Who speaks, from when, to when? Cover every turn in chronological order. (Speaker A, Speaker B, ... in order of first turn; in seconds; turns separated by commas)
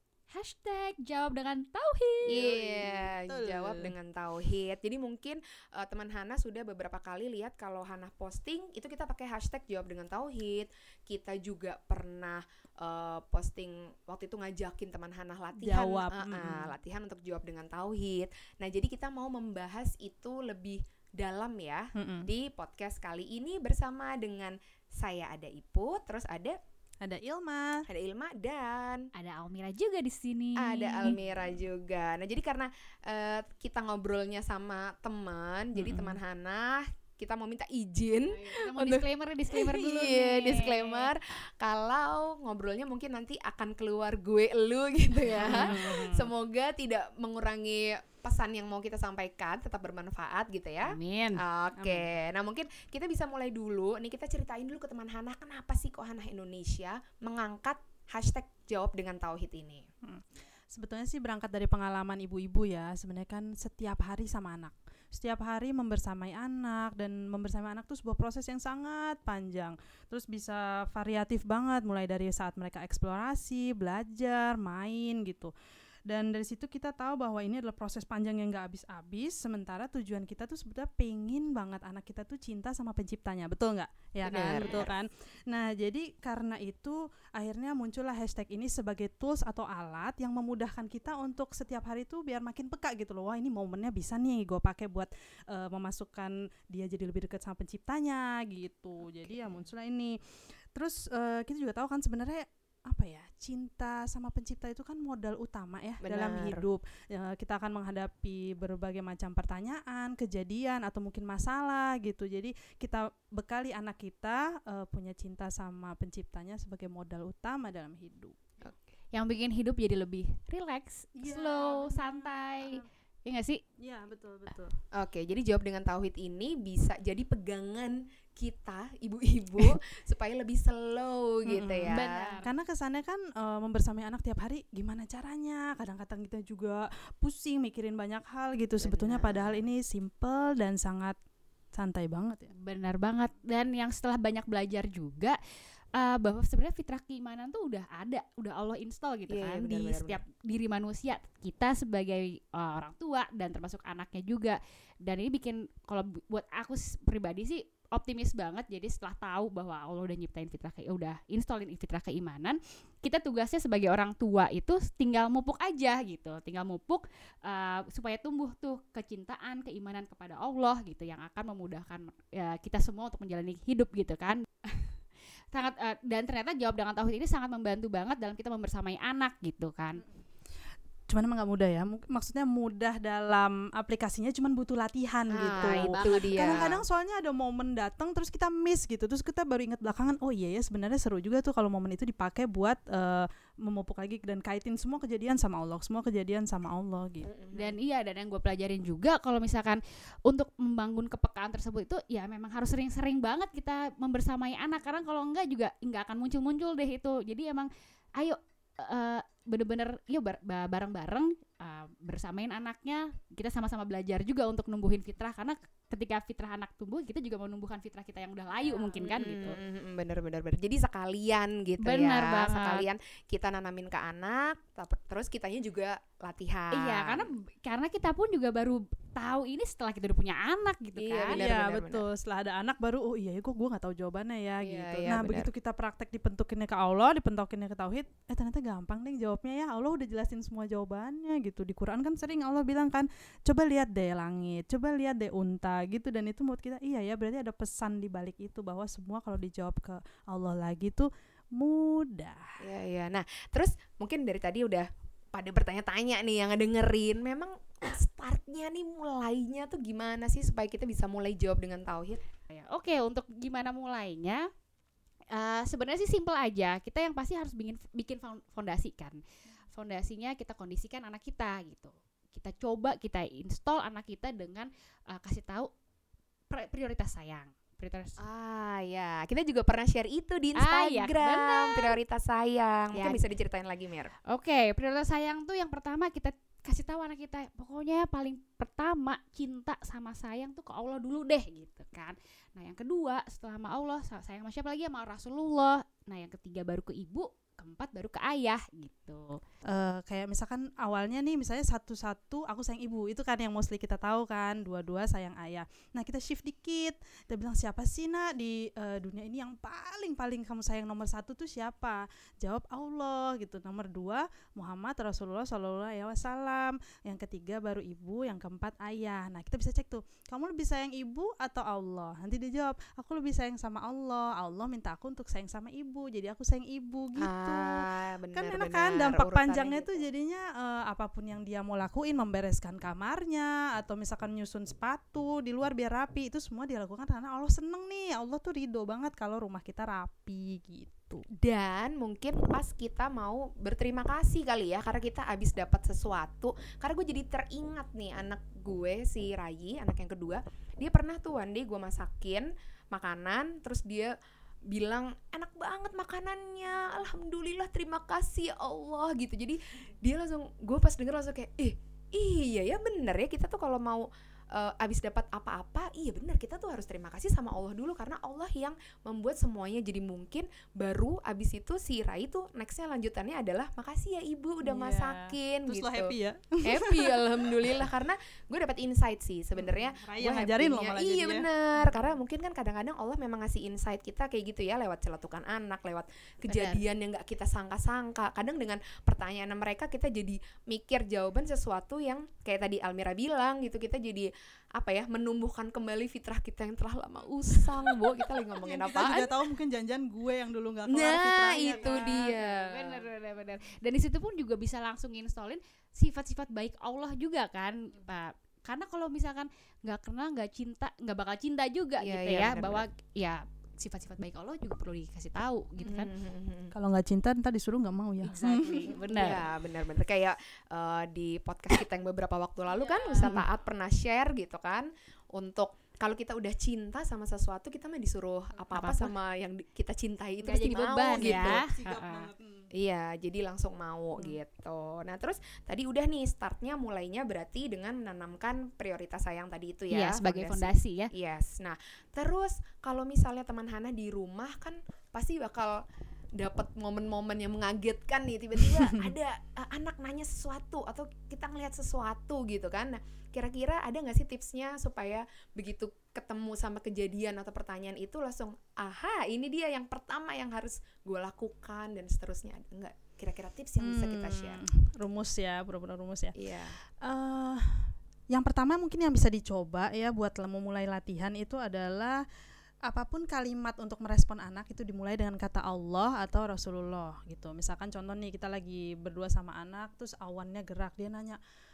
Speaker A: 0.3-2.5, Speaker B: 2.3-26.6, Speaker C: 2.4-3.9, Speaker C: 15.6-16.7, Speaker C: 21.9-22.3, Speaker C: 27.0-27.8, Speaker B: 27.9-29.1, Speaker A: 29.1-31.2, Speaker B: 30.6-59.9, Speaker C: 31.0-31.4, Speaker C: 35.8-36.2, Speaker A: 38.3-41.1, Speaker C: 45.4-46.3, Speaker A: 45.4-45.8, Speaker A: 50.9-51.4, Speaker C: 51.8-52.1, Speaker C: 60.0-75.5, Speaker C: 76.1-100.2, Speaker B: 84.2-84.9, Speaker A: 84.6-84.8, Speaker B: 99.0-99.6, Speaker C: 100.7-118.4, Speaker B: 106.0-106.7, Speaker A: 119.1-123.6, Speaker C: 121.2-122.8, Speaker C: 123.8-124.8, Speaker B: 125.0-132.3, Speaker C: 131.5-141.2, Speaker A: 131.9-132.5, Speaker B: 138.8-139.7, Speaker C: 141.8-142.5, Speaker A: 142.6-145.4, Speaker A: 146.0-174.9, Speaker B: 149.3-150.2, Speaker A: 175.5-180.0, Speaker C: 181.1-197.3, Speaker B: 185.3-186.8, Speaker A: 185.4-186.7, Speaker B: 197.2-197.8, Speaker A: 197.5-219.6, Speaker C: 218.6-219.0, Speaker B: 219.0-227.3, Speaker A: 221.8-222.9, Speaker A: 226.7-231.4, Speaker B: 231.0-232.0, Speaker C: 231.3-252.4, Speaker B: 234.6-235.5, Speaker B: 252.6-262.2, Speaker A: 262.5-264.5, Speaker A: 265.3-269.2, Speaker A: 269.7-275.7, Speaker A: 276.5-278.2, Speaker B: 278.2-284.1, Speaker A: 280.6-281.9, Speaker A: 282.9-283.2, Speaker A: 284.3-299.4, Speaker C: 299.7-341.2, Speaker B: 327.2-330.1, Speaker B: 341.4-354.1, Speaker B: 354.7-399.4, Speaker C: 374.6-377.2, Speaker C: 379.6-382.1, Speaker A: 386.5-386.8, Speaker C: 398.6-402.3, Speaker B: 400.9-403.0, Speaker A: 401.7-416.1, Speaker B: 412.0-412.9, Speaker B: 415.8-416.7, Speaker C: 416.7-418.9, Speaker A: 418.2-419.4, Speaker B: 419.1-431.7, Speaker A: 422.7-423.4, Speaker A: 428.7-429.1, Speaker A: 430.4-432.3, Speaker C: 431.2-432.7, Speaker B: 432.8-445.8, Speaker A: 439.9-441.1, Speaker B: 446.4-464.6, Speaker C: 463.8-466.4, Speaker B: 466.4-466.8, Speaker C: 467.0-472.2, Speaker C: 472.9-481.4